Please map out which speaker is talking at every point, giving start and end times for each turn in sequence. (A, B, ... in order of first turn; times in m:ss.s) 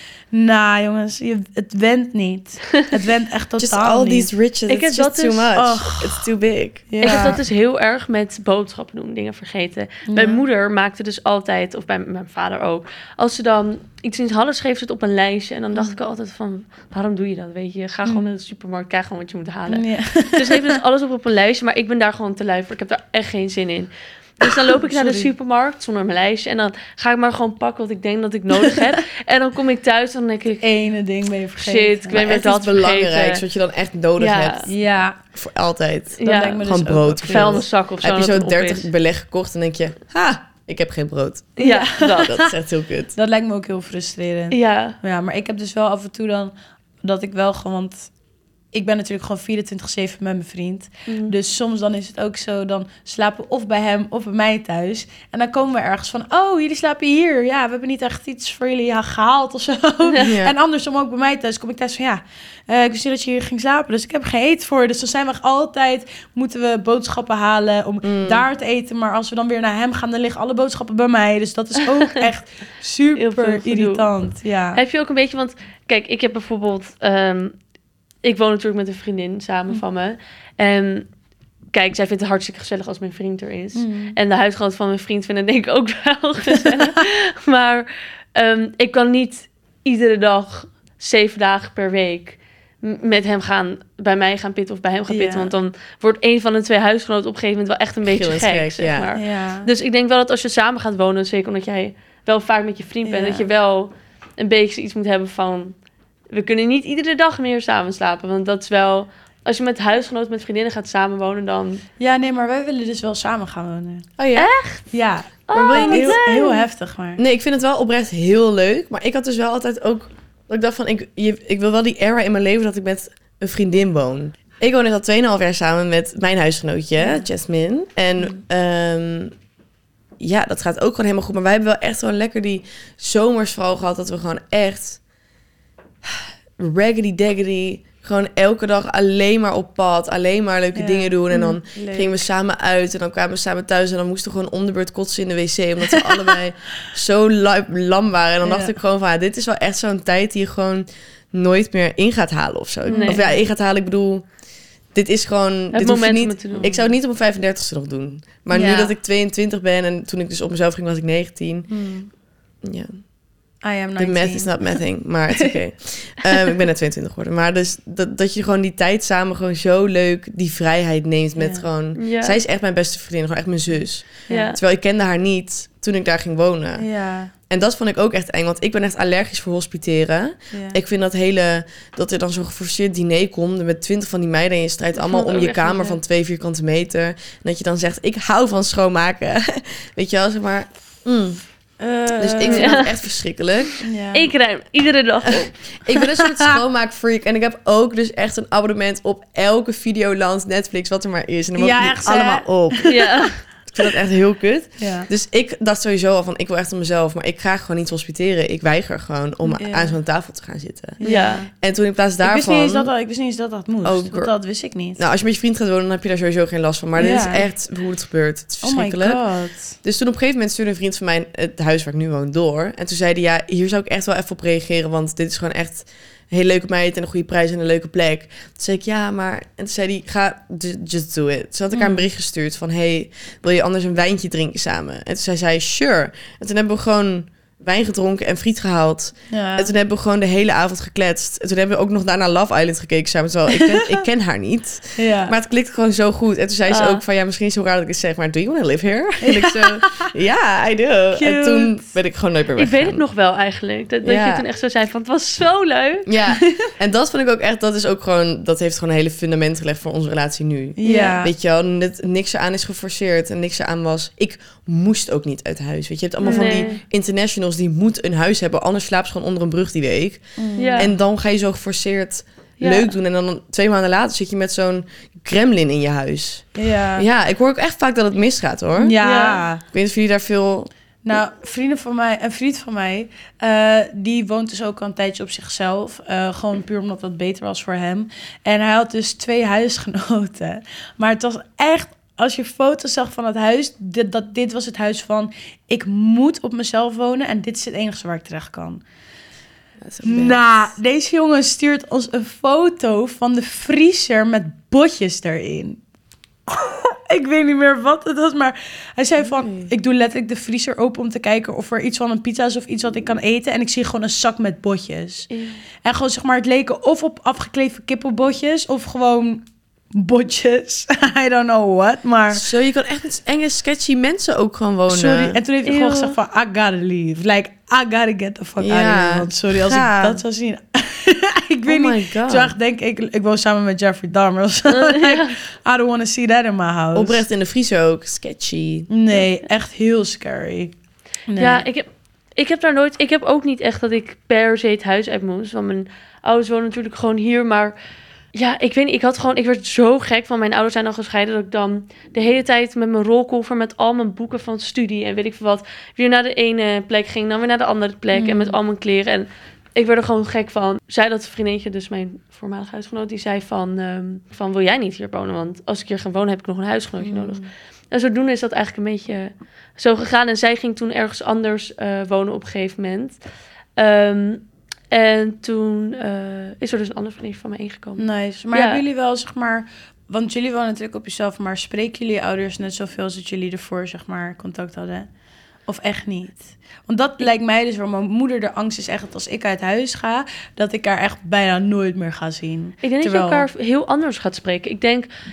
0:00.3-0:04.3 A
0:03.6-0:07.3 B
0:04.7-0:05.5 C
0:05.6-0:06.3 A
0:06.9-0:07.4 A
0:07.0-0:30.7 C
0:10.1-0:10.4 A
0:18.0-0:18.3 A
0:19.7-0:20.8 A
0:24.4-0:25.3 A
0:28.5-0:29.0 A
0:30.6-0:32.2 A
0:31.6-0:33.4 C
0:32.1-0:34.7 B
0:34.2-0:34.7 C
0:34.7-0:35.2 A
0:35.3-0:43.1 B
0:36.2-0:36.7 C
0:36.2-0:37.6 A
0:37.3-0:38.9 C
0:41.6-0:42.5 A
0:41.6-0:42.4 C
0:43.2-0:48.1 A
0:44.5-0:45.0 C
0:48.7-1:14.8 A
0:51.1-0:51.3 C
1:00.2-1:00.5 B
1:08.0-1:08.4 B
1:13.2-1:14.1 C
1:14.7-1:17.6 C
1:18.2-1:21.1 C
1:21.7-1:45.8 C
1:23.7-1:24.2 A
1:26.5-1:27.0 A
1:35.1-1:35.6 A
1:38.0-1:39.1 B
1:39.1-1:39.7 A
1:43.0-1:43.5 A
1:46.3-1:51.8 C
1:52.0-1:54.1 A
1:54.2-1:54.5 B
1:54.4-1:54.8 C
1:54.9-1:57.2 A
1:55.5-1:56.7 C
1:55.5-1:56.2 B
1:57.2-2:09.3 B
2:07.0-2:07.2 A
2:10.2-2:15.0 B
2:16.1-2:34.3 B
2:20.8-2:22.2 A
2:25.9-2:26.3 A
2:28.4-2:28.8 A
2:32.9-2:33.4 A
2:32.9-2:33.2 C
2:34.9-2:41.7 B
2:35.7-2:36.7 C
2:36.5-2:36.9 A
2:38.5-2:39.0 A
2:41.7-2:42.1 A
2:42.6-2:43.0 B
2:43.6-2:44.6 A
2:44.0-2:56.9 B
2:51.4-2:51.7 A
2:52.0-2:52.4 C
2:54.3-2:54.6 A
2:54.3-2:54.6 C
2:56.8-2:57.3 A
2:57.5-3:11.4 B
3:00.5-3:00.8 A
3:05.1-3:06.0 C
3:11.8-3:12.9 A
3:12.2-3:13.7 B
3:12.5-3:12.9 C
3:13.8-3:14.3 A
3:14.1-3:15.5 C
3:15.3-3:22.9 B
3:16.0-3:16.5 A
3:21.6-3:23.3 A
3:22.8-3:23.4 C
3:23.7-3:31.0 B
3:24.8-3:25.1 A
3:29.4-3:30.0 A
3:31.0-3:31.5 A
3:31.0-3:31.4 C
3:31.6-3:32.9 B
3:32.2-3:35.0 A
3:33.8-3:34.3 B
3:35.0-3:39.2 B
3:37.0-3:37.5 A
3:38.6-3:39.8 A
3:39.8-4:13.0 B
3:51.7-3:52.0 A
3:59.3-3:59.7 A
4:03.5-4:04.0 A
4:05.0-4:05.4 A
4:06.7-4:07.0 C
4:09.2-4:09.9 A
4:11.1-4:11.9 A
4:12.6-4:16.1 C
4:14.0-4:14.4 B
4:16.1-4:30.2 B
4:16.3-4:16.7 A
4:20.8-4:21.3 A
4:20.8-4:21.2 C
4:26.2-4:26.8 A
4:26.2-4:26.8 C
4:30.4-4:30.9 A
4:30.6-4:30.9 C
4:30.8-4:39.0 B
4:32.6-4:33.0 C
4:36.6-4:37.1 A
4:38.8-4:39.6 A
4:39.0-4:39.4 C
4:39.7-4:40.7 B
4:41.0-4:58.8 A
4:59.8-5:00.7 B
5:00.0-5:05.8 A
5:06.5-5:15.3 A
5:09.2-5:09.7 B
5:15.3-5:15.6 C
5:15.8-5:22.4 A
5:22.3-5:25.4 B
5:24.9-5:37.2 A
5:25.6-5:26.2 C
5:28.6-5:30.2 B
5:31.7-5:32.6 B
5:34.7-5:35.4 C
5:37.0-5:38.9 B
5:38.9-5:40.7 A
5:41.3-5:41.7 A
5:41.4-5:47.8 C
5:48.3-6:13.2 C
5:58.1-5:58.6 A
6:07.0-6:07.5 A
6:13.8-6:18.8 C
6:18.0-6:25.1 A
6:25.7-6:33.5 A
6:32.8-6:35.1 C